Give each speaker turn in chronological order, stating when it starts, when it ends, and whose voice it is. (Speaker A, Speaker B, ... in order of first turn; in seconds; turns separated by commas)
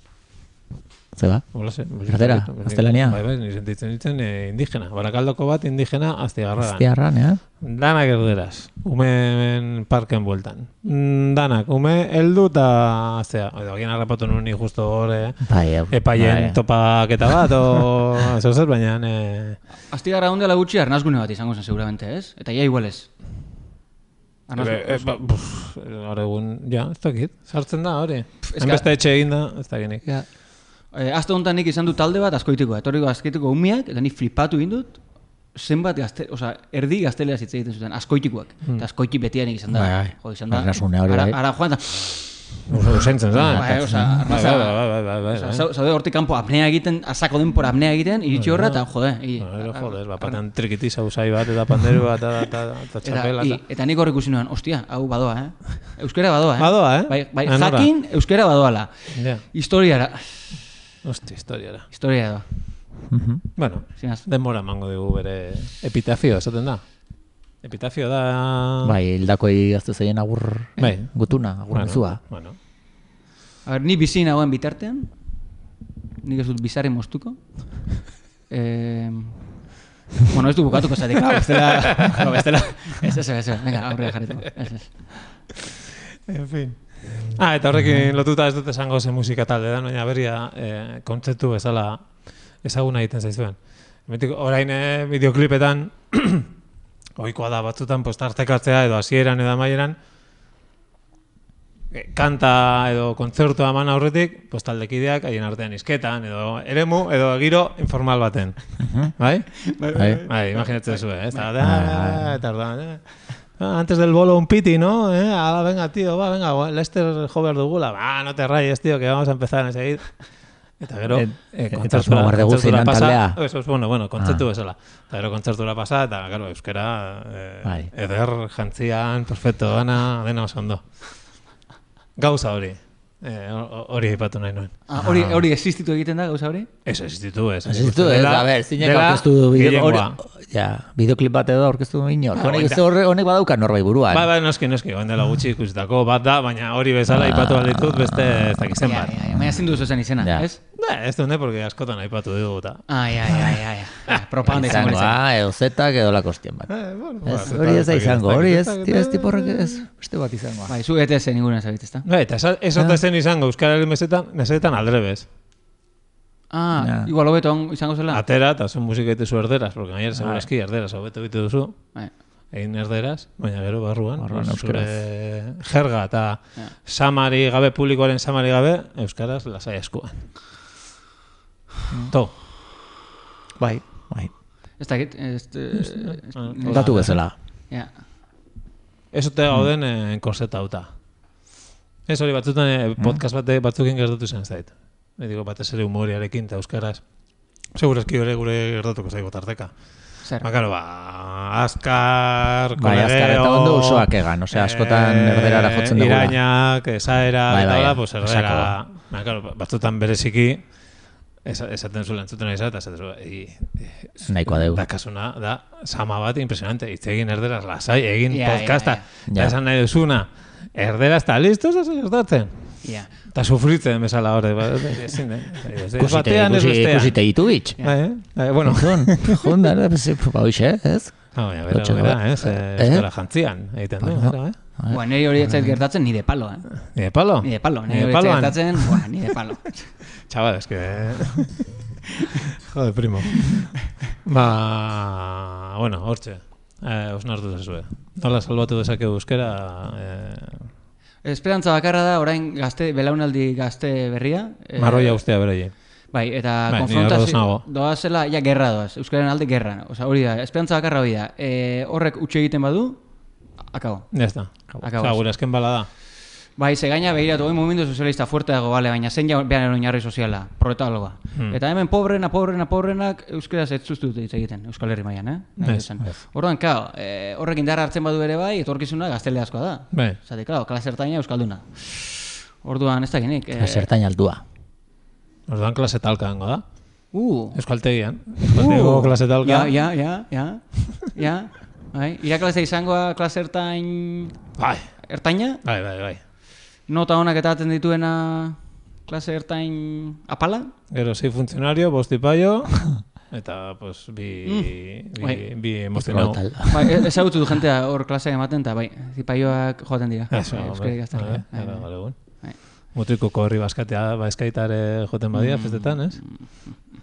Speaker A: 1.1-1.5, Speaker B: 1.6-6.9, Speaker A: 2.1-3.2, Speaker A: 6.6-7.4, Speaker B: 7.6-19.6, Speaker A: 15.5-16.6, Speaker C: 19.9-23.1, Speaker C: 24.5-25.1, Speaker B: 24.6-30.0, Speaker C: 28.4-28.9, Speaker C: 30.1-30.3, Speaker C: 30.9-35.0, Speaker C: 35.5-42.4, Speaker A: 39.7-41.4, Speaker B: 42.7-45.6, Speaker A: 43.3-44.2, Speaker C: 43.5-50.4, Speaker B: 48.3-48.8, Speaker B: 49.4-53.6, Speaker C: 53.0-60.6, Speaker B: 56.6-57.9, Speaker B: 59.1-59.4, Speaker B: 61.0-61.9, Speaker C: 61.9-62.5, Speaker A: 63.1-63.4, Speaker B: 63.6-66.8, Speaker C: 64.0-64.2, Speaker B: 67.6-69.0, Speaker A: 68.8-72.2, Speaker B: 70.8-72.6, Speaker C: 73.7-75.1, Speaker C: 76.2-77.9, Speaker C: 78.5-79.5, Speaker C: 80.2-84.9, Speaker B: 81.4-82.4, Speaker B: 86.3-92.0, Speaker B: 92.6-96.5, Speaker B: 97.2-100.0, Speaker B: 101.9-109.7, Speaker A: 108.8-109.1, Speaker C: 109.6-111.5, Speaker A: 110.0-110.2, Speaker B: 110.3-113.0, Speaker A: 111.6-112.4, Speaker B: 113.6-120.3, Speaker B: 120.8-130.8, Speaker A: 121.1-123.4, Speaker A: 127.6-127.9, Speaker B: 132.2-134.8, Speaker C: 134.9-136.7, Speaker A: 135.0-135.4, Speaker B: 136.9-140.2, Speaker A: 137.7-144.3, Speaker B: 142.3-142.8, Speaker B: 144.1-149.1, Speaker A: 147.1-148.6, Speaker C: 148.8-150.6, Speaker A: 150.2-150.5, Speaker B: 150.8-152.9, Speaker C: 152.9-155.2, Speaker A: 154.5-156.7, Speaker B: 156.7-159.8, Speaker A: 157.2-160.7, Speaker C: 160.7-162.1, Speaker B: 162.1-165.3, Speaker C: 166.5-168.2, Speaker A: 166.8-167.1, Speaker B: 168.1-171.9, Speaker A: 170.2-170.5, Speaker B: 172.5-180.3, Speaker A: 174.2-174.9, Speaker A: 183.6-184.3, Speaker C: 184.8-187.2, Speaker B: 186.3-187.2, Speaker A: 186.7-187.3, Speaker B: 189.1-190.9, Speaker B: 192.1-197.0, Speaker B: 197.8-199.7, Speaker B: 200.4-210.6, Speaker A: 202.8-206.4, Speaker A: 207.5-208.7, Speaker B: 211.4-222.8, Speaker A: 214.3-214.8, Speaker C: 218.3-219.0, Speaker A: 219.3-219.6, Speaker C: 222.8-223.1, Speaker B: 223.3-227.2, Speaker A: 226.0-227.8, Speaker B: 227.8-229.6, Speaker A: 228.7-233.1, Speaker B: 231.3-234.6, Speaker A: 234.0-235.7, Speaker C: 234.9-236.7, Speaker B: 236.9-239.0, Speaker C: 237.4-239.9, Speaker B: 240.3-241.7, Speaker B: 242.3-250.7, Speaker C: 251.2-255.2, Speaker B: 254.8-255.7, Speaker C: 256.1-263.0, Speaker B: 256.7-257.6, Speaker C: 263.7-264.2, Speaker B: 264.1-265.9, Speaker C: 264.8-265.3, Speaker C: 266.6-283.9, Speaker B: 275.6-275.9, Speaker A: 283.6-284.4, Speaker B: 285.5-286.6, Speaker C: 287.1-287.6, Speaker B: 287.6-289.7, Speaker C: 288.5-294.4, Speaker B: 294.6-295.0, Speaker C: 295.0-295.6, Speaker B: 295.6-296.2, Speaker C: 296.9-300.7, Speaker B: 300.9-306.7, Speaker C: 304.4-305.4, Speaker A: 305.9-307.0, Speaker C: 306.7-312.6, Speaker B: 310.3-316.3, Speaker C: 315.3-316.8